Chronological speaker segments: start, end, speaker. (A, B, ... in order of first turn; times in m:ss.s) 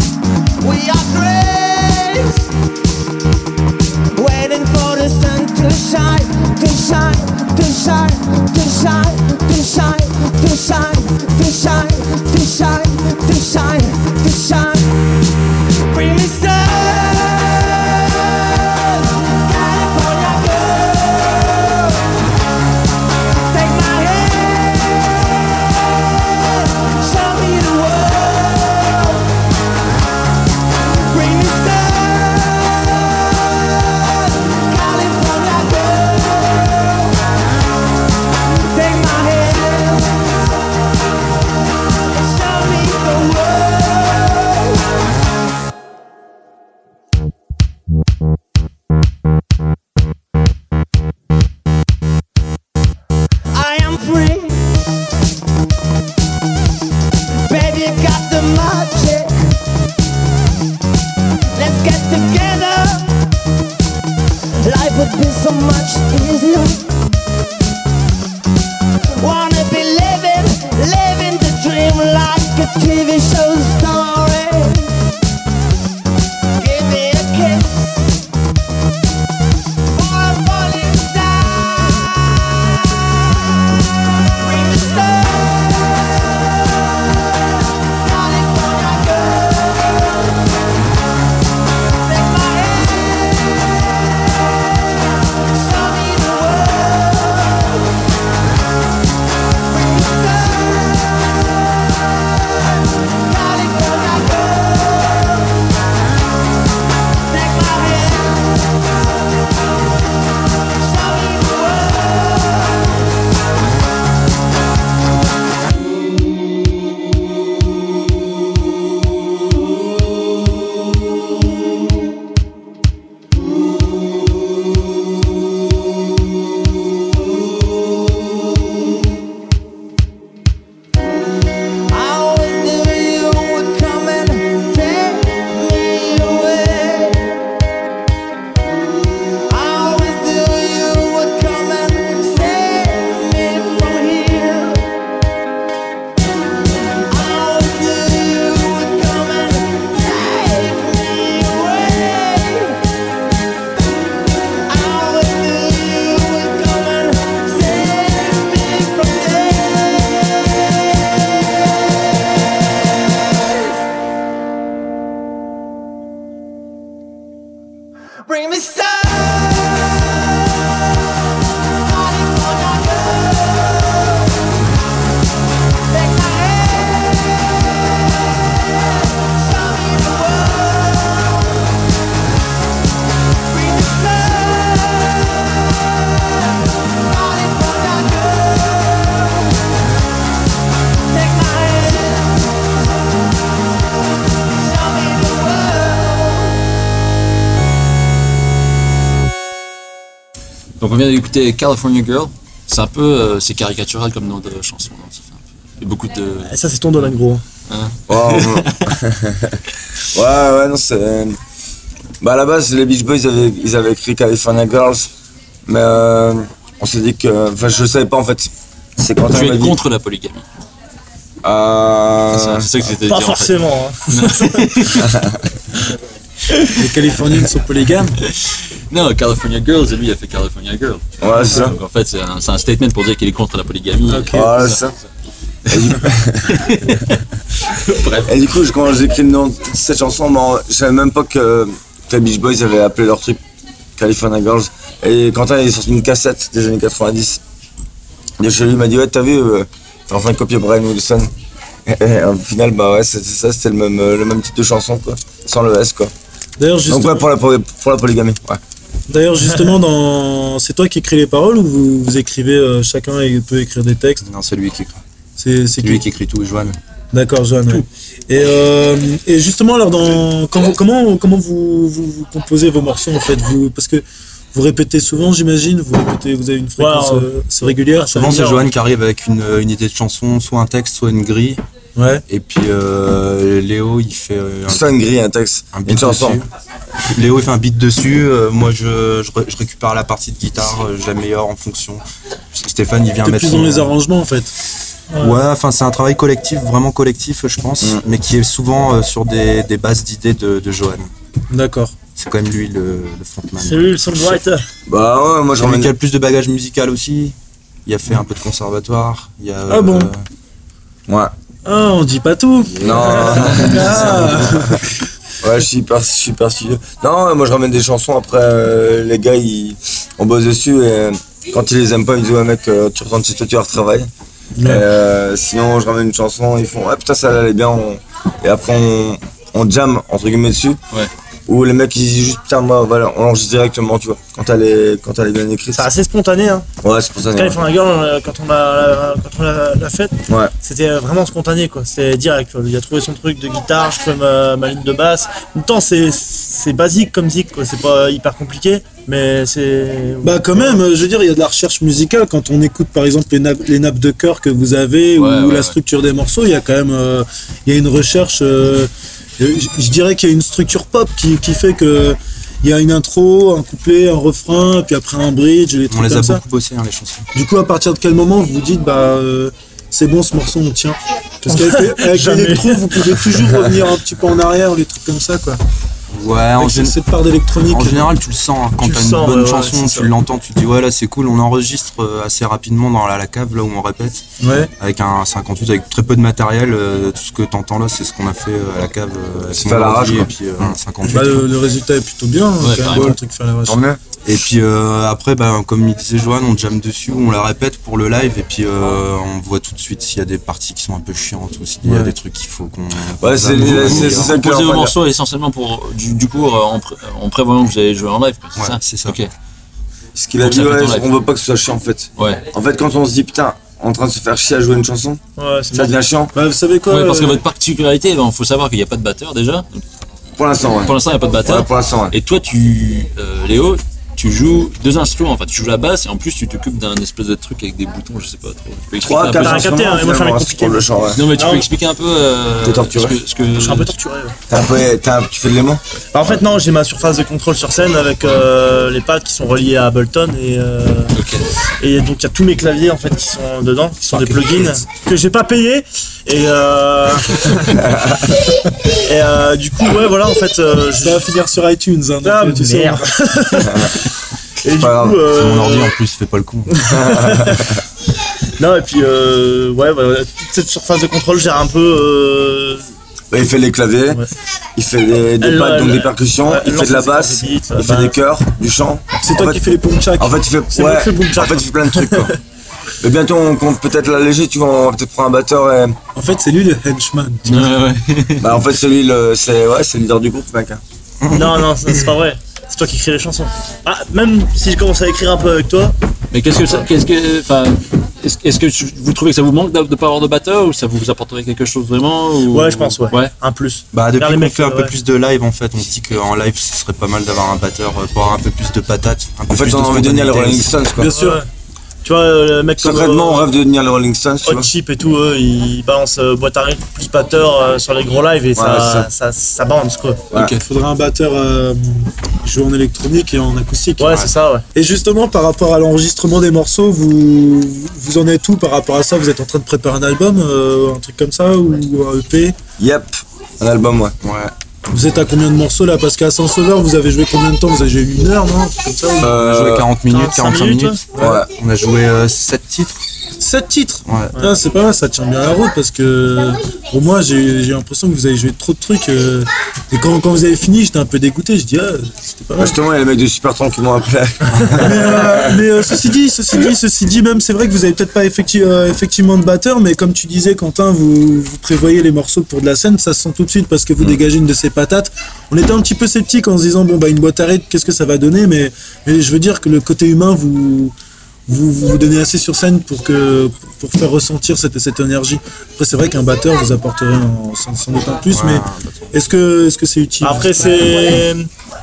0:00.6-0:02.5 A
0:04.2-0:15.0 A
0:15.7-0:22.1 A
0:23.4-0:29.3 A
0:31.0-0:37.2 A
0:38.6-0:40.5 A
0:42.0-0:44.8 A
0:53.5-0:54.8 A
0:57.5-0:59.6 A
1:01.5-1:03.3 A
1:04.6-1:06.9 A
1:09.2-1:15.0 A
1:16.6-1:18.1 A
1:19.9-1:23.1 A
1:24.3-1:26.4 A
1:27.8-1:30.4 A
1:32.0-1:38.0 A
1:39.7-1:45.5 A
1:47.3-1:48.7 A
1:50.7-1:53.0 A
2:11.9-2:17.4 A
2:19.5-2:25.0 A
2:27.1-2:32.8 A
2:34.7-2:40.5 A
2:48.3-2:50.0 A
2:51.6-2:54.3 A
2:55.9-2:57.8 A
2:58.3-3:01.7 A
3:03.4-3:09.5 A
3:11.1-3:12.8 A
3:14.4-3:16.6 A
3:20.8-3:26.5 B
3:26.4-3:27.4 C
3:27.7-3:28.9 B
3:28.1-3:31.4 D
3:32.2-3:35.1 D
3:35.7-3:39.8 D
3:39.3-3:40.5 B
3:41.4-3:42.7 D
3:42.3-3:45.1 B
3:43.0-3:44.9 C
3:45.0-3:45.4 D
3:46.8-3:48.2 E
3:48.2-3:54.8 B
3:51.2-3:51.8 D
3:54.1-3:54.6 E
3:54.3-3:55.0 D
3:55.7-3:56.7 D
3:55.7-3:56.0 B
3:56.5-3:58.4 B
3:58.3-4:03.4 D
4:04.0-4:07.4 D
4:08.4-4:11.3 D
4:11.9-4:16.1 D
4:16.6-4:17.3 E
4:16.9-4:18.6 D
4:19.1-4:24.2 E
4:24.2-4:25.0 F
4:25.4-4:26.0 E
4:25.8-4:26.8 F
4:27.1-4:38.3 E
4:36.8-4:38.7 C
4:38.1-4:41.6 F
4:42.0-4:42.2 E
4:42.3-4:44.9 F
4:44.7-4:46.4 D
4:45.7-4:46.5 F
4:47.0-4:52.0 F
4:52.5-4:53.9 F
4:53.2-4:54.5 E
4:55.1-4:55.4 C
4:55.2-5:01.1 F
5:01.5-5:02.0 E
5:02.2-5:04.4 F
5:03.6-5:04.6 C
5:04.9-5:05.9 D
5:05.6-5:10.2 F
5:09.7-5:10.1 E
5:11.1-5:11.3 D
5:11.6-5:14.9 E
5:12.8-5:14.8 D
5:13.5-5:14.3 B
5:15.4-5:24.1 D
5:24.6-5:24.9 E
5:24.6-5:30.8 D
5:31.5-5:35.9 D
5:35.7-5:36.7 C
5:36.8-5:37.6 D
5:37.3-5:50.8 C
5:40.3-5:40.5 D
5:50.2-6:06.4 E
5:55.2-5:55.8 B
6:05.9-6:07.3 F
6:07.4-6:15.6 E
6:11.5-6:13.2 C
6:16.1-6:17.0 F
6:16.6-6:18.1 E
6:17.5-6:31.5 F
6:18.8-6:20.1 C
6:24.4-6:24.7 E
6:29.6-6:30.3 D
6:31.0-6:33.8 E
6:32.6-6:33.2 B
6:32.9-6:34.0 D
6:34.2-6:44.4 F
6:41.8-6:42.1 E
6:43.2-6:44.9 D
6:43.6-6:49.3 B
6:48.6-6:49.2 F
6:50.2-6:55.2 D
6:50.4-6:51.1 B
6:52.2-6:52.4 B
6:55.4-6:56.0 C
6:55.7-6:56.3 D
6:56.3-6:57.4 E
6:56.9-6:59.8 B
7:00.4-7:02.1 D
7:00.8-7:09.8 B
7:09.0-7:11.2 D
7:09.4-7:11.7 C
7:11.1-7:13.9 B
7:12.6-7:13.2 D
7:13.6-7:14.4 C
7:14.5-7:15.8 D
7:16.1-7:21.2 C
7:21.1-7:21.5 B
7:21.8-7:27.8 C
7:24.1-7:24.6 E
7:28.9-7:31.3 C
7:31.0-7:33.6 E
7:32.2-7:34.1 C
7:33.7-7:34.0 D
7:34.6-7:36.0 C
7:34.7-7:35.2 D
7:35.3-7:36.9 F
7:36.8-7:37.6 C
7:36.9-7:37.8 D
7:38.6-7:42.9 C
7:43.3-7:44.2 D
7:44.8-7:52.4 D
7:45.4-7:48.2 C
7:49.2-7:50.4 E
7:50.7-7:52.3 C
7:53.0-7:56.0 D
7:56.2-7:57.7 E
7:57.5-7:58.6 B
7:58.4-8:00.8 D
8:01.2-8:01.7 F
8:01.3-8:06.0 C
8:06.3-8:13.3 B
8:12.5-8:15.0 C
8:13.9-8:20.8 F
8:19.5-8:21.1 D
8:21.0-8:21.4 E
8:21.0-8:21.5 C
8:22.0-8:23.5 C
8:22.8-8:24.7 D
8:24.4-8:30.3 C
8:28.6-8:29.1 D
8:30.3-8:30.6 D
8:30.5-8:34.2 E
8:34.0-8:34.6 C
8:34.8-8:42.6 E
8:42.8-8:44.2 D
8:44.2-8:44.5 F
8:44.9-8:49.4 E
8:49.2-8:49.9 D
8:49.3-8:53.0 F
8:50.1-8:51.0 C
8:51.2-8:51.5 D
8:53.4-9:02.8 E
8:54.1-8:54.4 F
9:02.6-9:05.6 D
9:04.7-9:20.9 E
9:21.5-9:31.2 E
9:28.3-9:29.1 F
9:30.2-9:31.5 C